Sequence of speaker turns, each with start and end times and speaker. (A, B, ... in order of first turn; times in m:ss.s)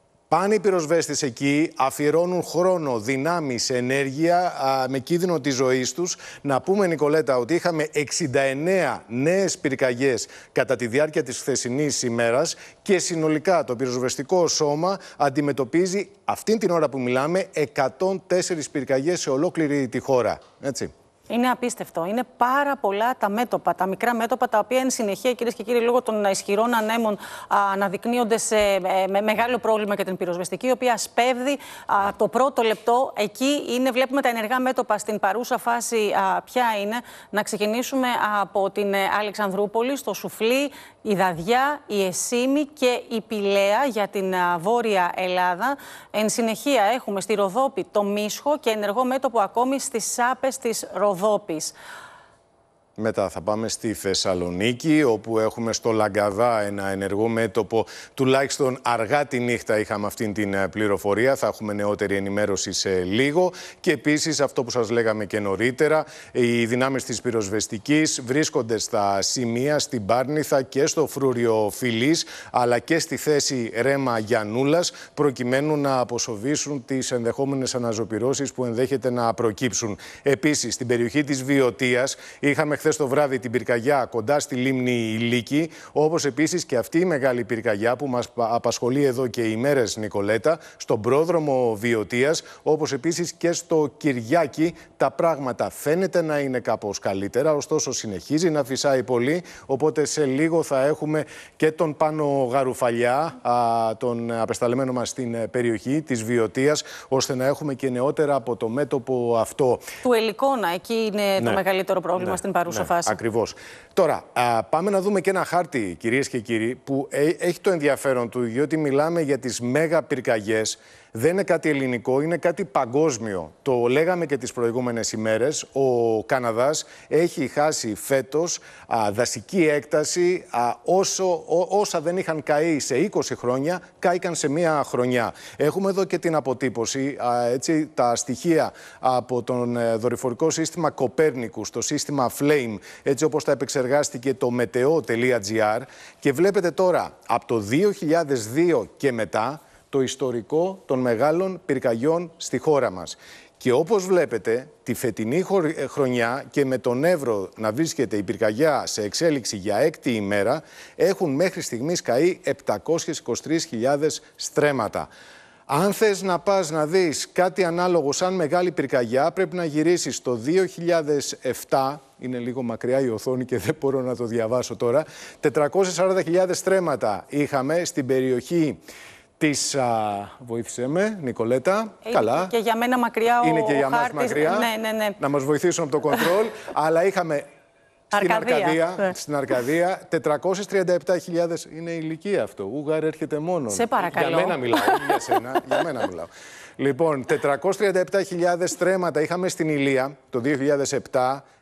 0:00.3-0:20.9 A
0:21.3-0:51.7 B
0:53.0-1:49.8 A
1:50.0-1:53.2 B
1:52.2-2:45.1 A
2:45.7-2:58.8 A
2:59.4-3:02.5 A
3:02.0-3:05.2 B
3:03.4-3:07.4 A
3:08.1-3:09.0 B
3:08.1-3:21.4 A
3:13.7-3:15.0 B